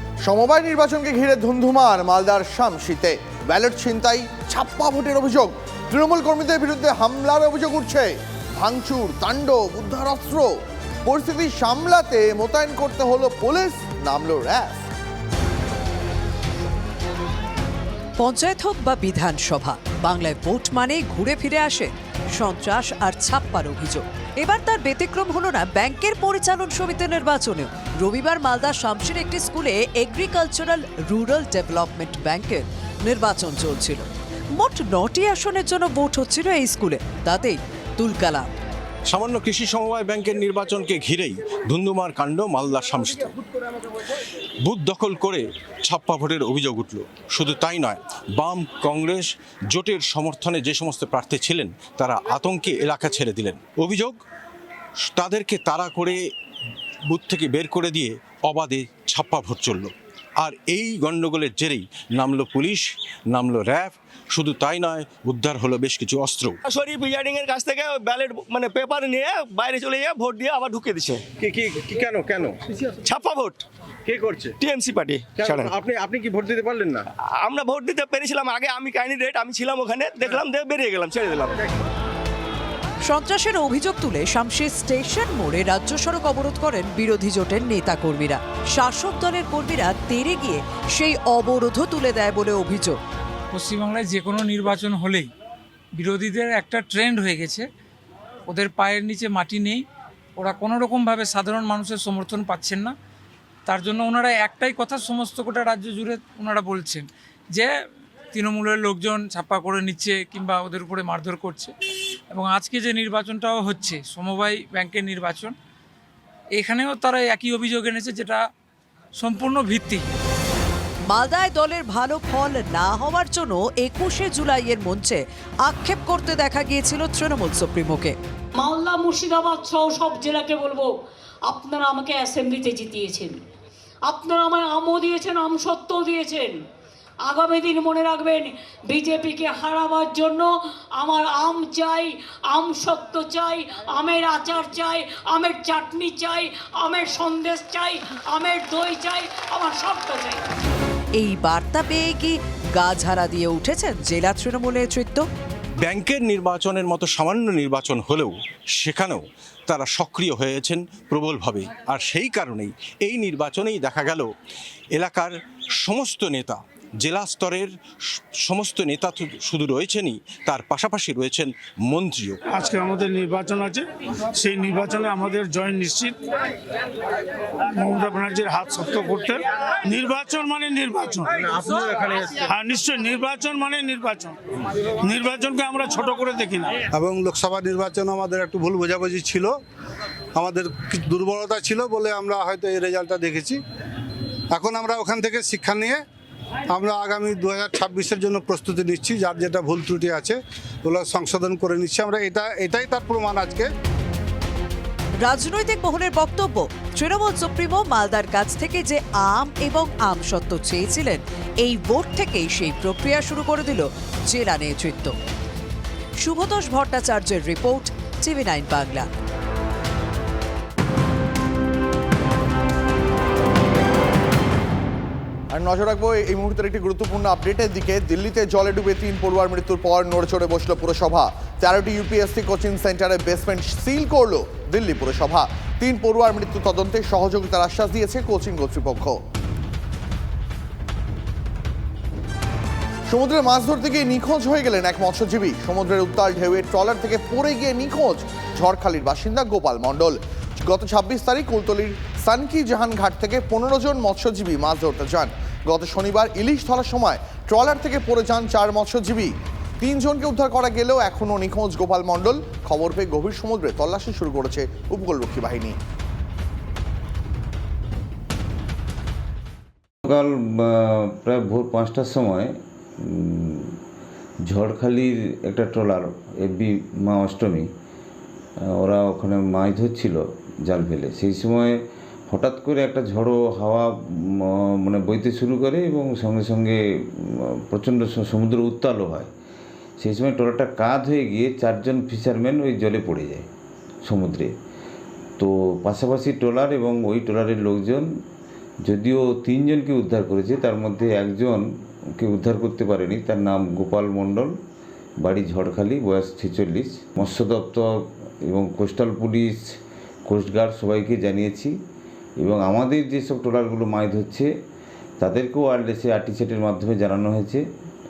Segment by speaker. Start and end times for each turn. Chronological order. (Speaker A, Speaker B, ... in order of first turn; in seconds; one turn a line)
Speaker A: 0.2-14.8
Speaker B: 18.2-38.5
Speaker C: 39.1-43.3
Speaker C: 44.6-54.2
Speaker C: 55.1-56.2
Speaker C: 57.1-66.6
Speaker D: 66.6-71.3
Speaker D: 73.0-73.6
Speaker D: 74.6-75.8
Speaker D: 77.4-81.7
Speaker B: 83.0-93.0
Speaker E: 93.5-95.3
Speaker E: 96.0-97.7
Speaker E: 98.5-99.8
Speaker E: 100.4-102.9
Speaker E: 103.7-107.7
Speaker E: 108.3-111.7
Speaker E: 112.3-115.5
Speaker E: 116.5-118.4
Speaker E: 119.2-120.1
Speaker B: 121.1-128.2
Speaker F: 128.6-130.9
Speaker F: 131.5-133.4
Speaker F: 134.1-136.6
Speaker F: 137.3-150.4
Speaker B: 151.2-155.3
Speaker C: 155.8-164.3
Speaker C: 164.9-167.7
Speaker C: 168.4-172.4
Speaker G: 172.5-176.2
Speaker G: 177.8-184.3
Speaker G: 185.0-186.8
Speaker H: 186.9-189.5
Speaker H: 190.3-193.6
Speaker H: 194.5-196.0
Speaker H: 196.7-203.7
Speaker B: 205.2-215.1
Speaker B: 216.2-219.1
Speaker A: 225.5-239.2
Speaker A: 243.1-265.8
Speaker I: 270.0-273.8
Speaker I: 274.5-277.7
Speaker I: 278.7-289.3
Speaker I: 290.0-293.5
Speaker I: 294.0-294.5
Speaker I: 295.4-298.1
Speaker I: 298.8-304.5
Speaker I: 305.2-309.6
Speaker I: 310.3-311.8
Speaker I: 312.4-314.5
Speaker I: 315.2-317.6